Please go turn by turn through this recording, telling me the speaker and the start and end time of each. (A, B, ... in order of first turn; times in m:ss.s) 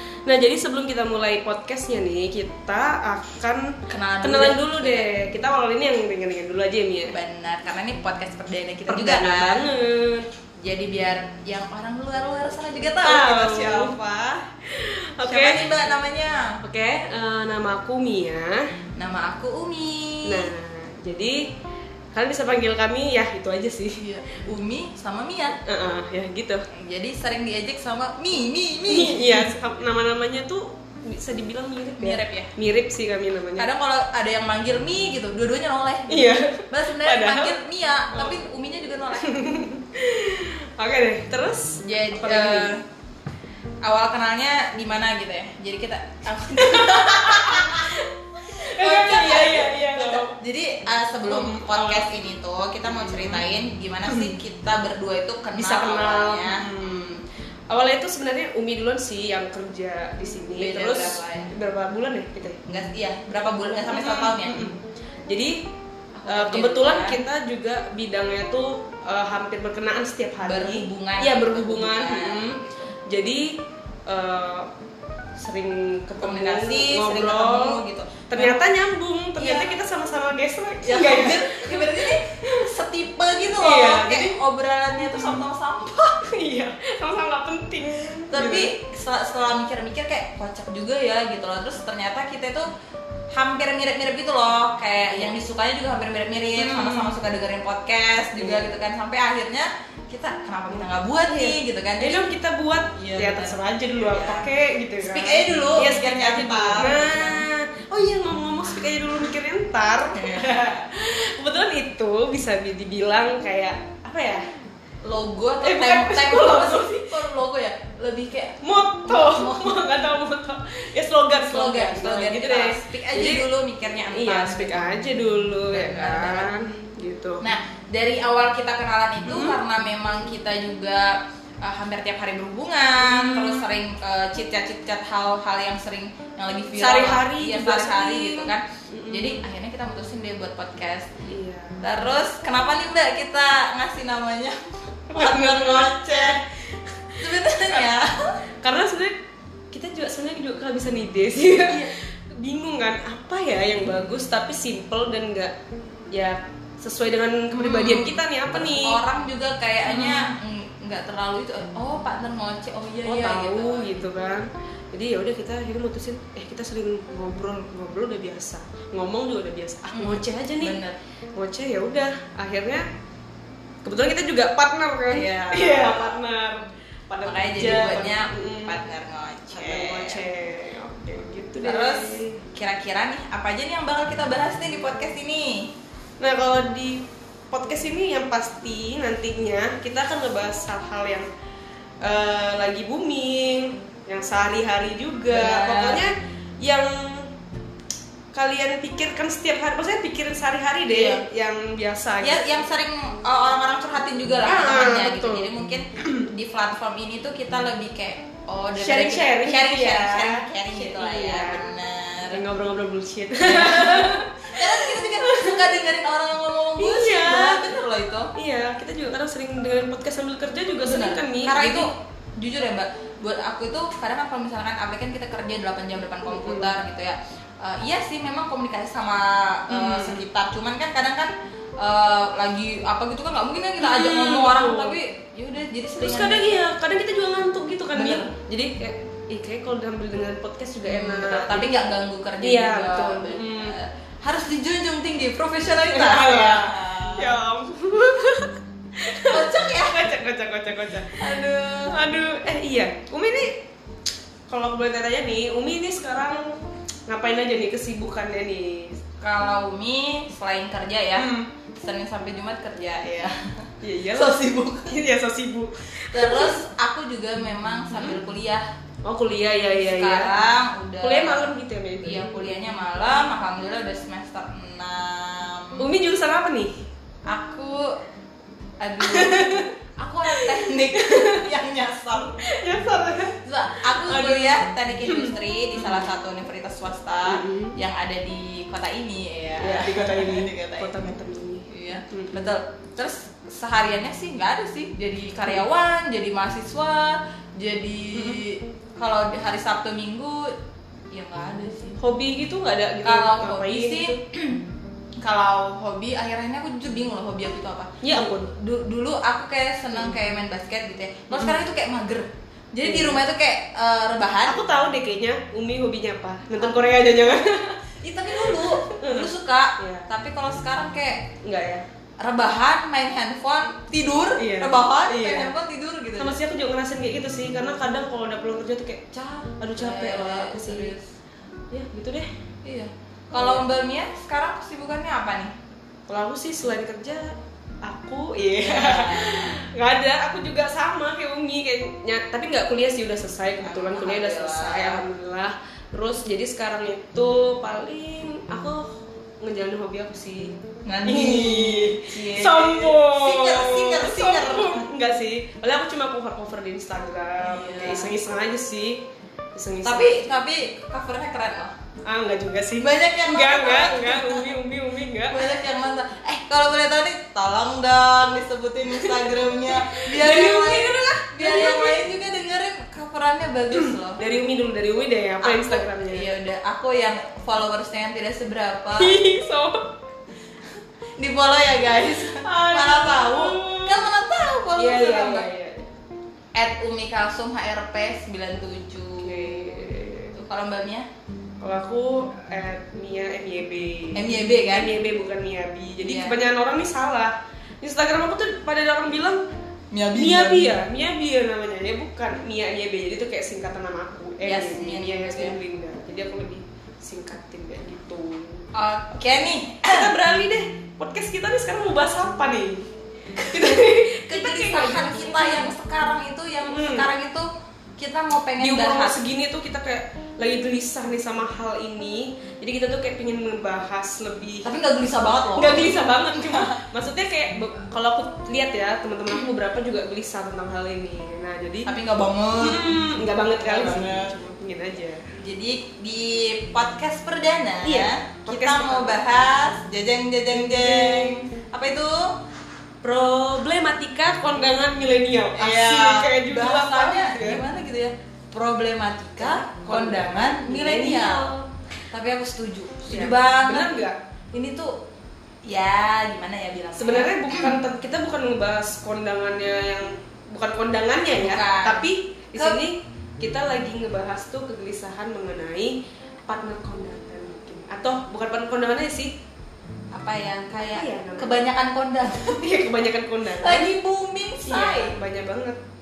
0:00.3-0:07.2 A
0:03.9-0:05.1 B
0:07.1-0:09.7 B
0:08.9-0:10.3 A
0:10.6-0:14.4 B
0:13.0-0:14.0 A
0:14.6-0:15.7 A
0:15.3-0:16.6 B
0:16.6-0:18.7 A
0:19.0-0:20.5 B
0:20.2-0:21.5 A
0:22.1-0:24.0 A
0:24.0-0:25.6 B
0:25.7-0:26.7 A
0:26.7-0:29.5 B
0:28.9-0:33.7 A
0:32.0-0:32.5 B
0:33.6-0:39.6 B
0:36.1-0:37.6 A
0:38.1-0:38.4 A
0:39.2-0:42.7 A
0:41.8-0:42.8 B
0:43.8-0:48.0 B
0:46.6-0:50.4 A
0:48.6-0:57.2 B
0:51.3-0:52.1 A
0:52.9-0:53.4 A
0:54.1-0:54.3 A
0:55.6-1:02.6 A
1:00.6-1:01.5 B
1:02.7-1:04.6 B
1:03.9-1:04.8 A
1:05.3-1:05.6 A
1:06.2-1:07.2 B
1:06.3-1:14.7 A
1:10.4-1:12.6 B
1:15.4-1:17.8 A
1:16.2-1:18.7 B
1:18.3-1:22.6 A
1:19.4-1:19.8 B
1:20.8-1:26.2 B
1:23.6-1:24.4 A
1:25.0-1:25.4 A
1:26.2-1:28.7 A
1:28.3-1:32.7 B
1:33.3-1:42.2 B
1:36.6-1:37.2 A
1:38.4-1:38.8 A
1:40.7-1:54.5 A
1:43.0-1:44.5 B
1:45.0-1:47.4 B
1:50.2-1:50.6 B
1:55.0-1:59.9 B
1:55.6-1:57.2 A
1:58.6-2:03.5 A
2:01.4-2:04.9 B
2:04.1-2:07.5 A
2:05.7-2:06.5 B
2:07.4-2:21.1 B
2:09.2-2:09.6 A
2:13.0-2:13.7 A
2:16.8-2:19.4 A
2:21.2-2:21.8 A
2:21.8-2:26.4 B
2:25.1-2:27.9 A
2:27.2-2:28.4 B
2:28.6-2:29.1 A
2:29.7-2:35.5 A
2:31.6-2:31.9 B
2:36.1-2:39.0 A
2:37.5-2:44.0 B
2:39.8-2:40.3 A
2:43.0-2:50.8 A
2:49.9-2:51.0 B
2:51.4-2:52.9 A
2:53.8-2:58.8 A
2:55.1-2:56.2 B
2:57.2-3:00.2 B
2:59.5-3:02.4 A
3:01.6-3:05.7 B
3:06.2-3:11.3 A
3:12.0-3:17.3 A
3:15.3-3:16.0 B
3:18.3-3:22.6 A
3:20.9-3:21.2 B
3:22.2-3:32.4 B
3:24.4-3:25.5 A
3:28.8-3:31.7 A
3:32.3-3:35.7 A
3:33.4-3:38.3 B
3:36.8-3:37.7 A
3:38.4-3:41.9 A
3:40.8-3:56.6 B
3:46.3-3:46.7 A
3:49.7-3:50.2 A
3:53.8-3:55.0 A
3:56.0-4:01.8 A
3:58.0-3:58.3 B
4:00.8-4:07.4 B
4:02.4-4:03.8 A
4:05.9-4:13.6 A
4:09.2-4:10.0 B
4:11.2-4:12.0 B
4:14.5-4:19.0 A
4:19.2-4:23.4 B
4:21.2-4:21.5 A
4:23.8-4:26.6 A
4:24.1-4:24.9 B
4:26.1-4:28.7 B
4:27.9-4:28.2 A
4:29.0-4:30.3 A
4:29.7-4:35.9 B
4:31.0-4:32.6 A
4:35.8-4:36.8 A
4:37.3-4:38.0 B
4:38.8-4:42.4 B
4:39.0-4:39.7 A
4:40.3-4:41.5 A
4:42.4-4:46.1 A
4:43.4-4:51.1 B
4:47.2-4:47.8 A
4:49.6-4:52.5 A
4:51.7-5:00.6 B
4:58.1-4:58.4 A
5:01.1-5:02.0 B
5:02.0-5:04.2 A
5:03.0-5:04.6 B
5:05.2-5:14.6 B
5:08.0-5:08.5 A
5:11.3-5:11.6 A
5:12.8-5:13.2 A
5:14.4-5:20.1 A
5:16.6-5:17.1 B
5:18.0-5:21.2 B
5:21.4-5:21.8 A
5:22.2-5:26.4 B
5:24.4-5:25.5 A
5:26.2-5:29.0 A
5:29.1-5:31.1 B
5:29.6-5:31.0 A
5:31.7-5:32.3 A
5:32.6-5:35.5 B
5:33.3-5:33.7 A
5:36.1-5:50.5 A
5:38.6-5:39.6 B
5:43.6-5:45.0 B
5:50.8-5:54.9 B
5:51.0-5:59.0 A
5:57.4-5:58.2 B
5:59.6-6:00.2 A
5:59.8-6:01.8 B
6:02.1-6:05.6 A
6:02.8-6:04.6 B
6:05.3-6:14.2 B
6:08.9-6:12.0 A
6:13.7-6:16.3 A
6:15.4-6:19.2 B
6:19.0-6:19.9 A
6:21.2-6:25.5 B
6:22.2-6:24.1 A
6:24.8-6:25.9 A
6:26.5-6:29.7 B
6:29.2-6:30.4 A
6:30.4-6:31.1 B
6:31.6-6:39.4 A
6:34.2-6:34.9 B
6:36.0-6:36.4 B
6:39.9-6:40.8 B
6:40.1-6:48.7 A
6:44.4-6:45.6 B
6:48.7-6:50.1 B
6:49.8-6:55.7 A
6:54.3-6:59.2 B
6:56.6-6:57.1 A
6:58.6-7:04.7 A
7:04.6-7:06.8 B
7:05.6-7:11.9 A
7:11.9-7:14.4 B
7:12.6-7:15.3 A
7:15.4-7:22.3 B
7:17.8-7:19.2 A
7:20.5-7:21.4 A
7:23.0-7:27.6 A
7:25.6-7:31.5 B
7:29.4-7:31.7 A
7:32.1-7:34.0 B
7:33.1-7:34.2 A
7:34.5-7:34.9 B
7:35.7-7:37.8 B
7:37.0-7:46.0 A
7:41.4-7:42.8 B
7:46.5-7:49.3 A
7:50.1-7:52.8 B
7:50.8-7:51.6 A
7:52.4-7:53.9 A
7:53.6-7:55.2 B
7:54.6-7:55.8 A